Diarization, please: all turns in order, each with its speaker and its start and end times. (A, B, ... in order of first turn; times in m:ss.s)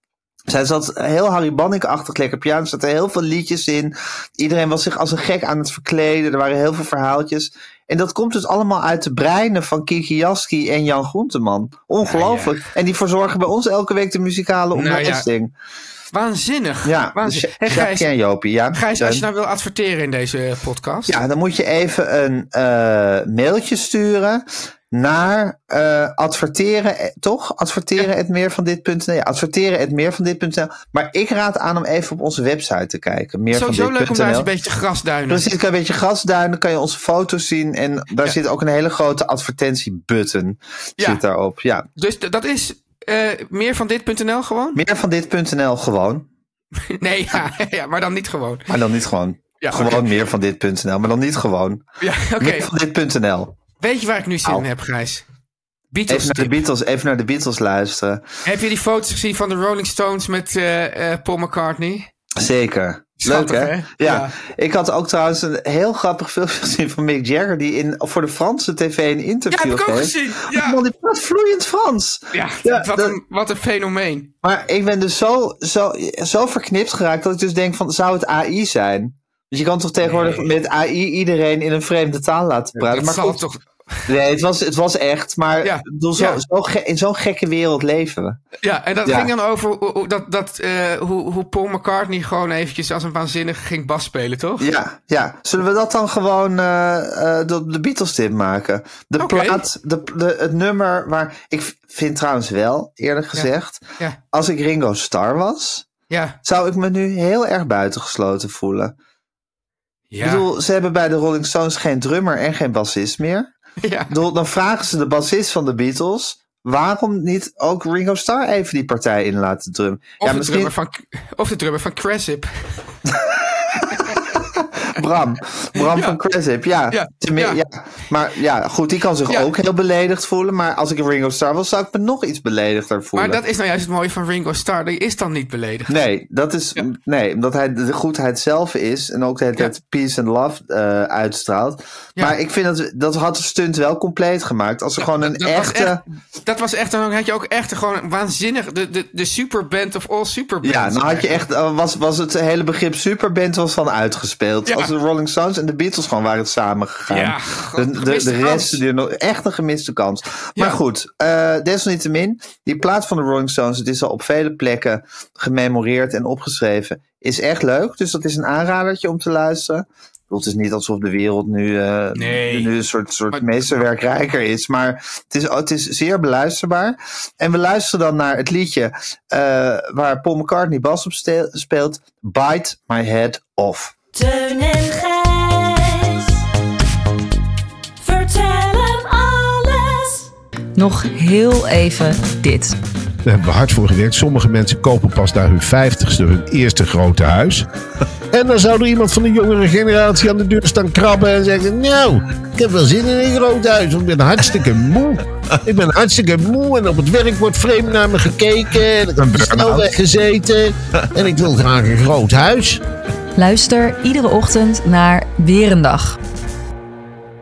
0:00.5-0:15.5 A
0:12.0-0:12.6 B
0:14.7-0:15.3 B
0:16.1-0:18.0 B
0:16.8-0:19.2 A
0:18.7-0:21.2 B
0:21.1-0:34.5 A
0:33.5-0:35.5 B
0:35.3-0:41.8 A
0:42.0-0:44.8 B
0:44.7-0:46.3 A
0:46.9-0:48.7 B
0:48.7-0:51.8 A
0:49.6-0:50.1 B
0:52.0-0:52.7 B
0:52.4-0:53.6 A
0:53.8-0:55.2 B
0:55.9-0:56.6 B
0:56.1-0:58.3 A
0:58.4-1:02.1 B
1:02.4-1:13.2 A
1:03.2-1:04.3 B
1:09.5-1:10.8 B
1:12.3-1:14.3 B
1:14.4-1:23.4 A
1:20.0-1:20.5 B
1:22.8-1:24.1 B
1:24.1-1:28.4 A
1:25.6-1:26.4 B
1:28.6-1:34.7 B
1:29.0-1:29.3 A
1:34.6-1:45.9 A
1:39.2-1:39.6 B
1:43.3-1:44.2 B
1:46.1-1:46.4 B
1:46.4-1:48.9 A
1:50.1-1:50.4 B
1:50.2-1:53.5 A
1:53.8-1:54.2 B
1:54.1-2:00.7 A
2:00.2-2:02.6 B
2:03.0-2:13.4 A
2:03.9-2:04.2 B
2:05.7-2:06.2 B
2:06.9-2:07.6 B
2:13.1-2:15.9 B
2:15.9-2:26.0 A
2:25.0-2:31.4 B
2:30.6-3:03.9 A
2:34.7-2:35.0 B
2:37.1-2:38.8 B
2:52.1-2:52.7 B
2:53.3-2:53.8 B
3:04.1-3:06.4 C
3:08.0-3:10.3 C
3:10.7-3:12.8 D
3:13.2-3:17.6 E
3:18.3-3:32.8 E
3:29.2-3:29.9 A
3:33.4-3:36.2 D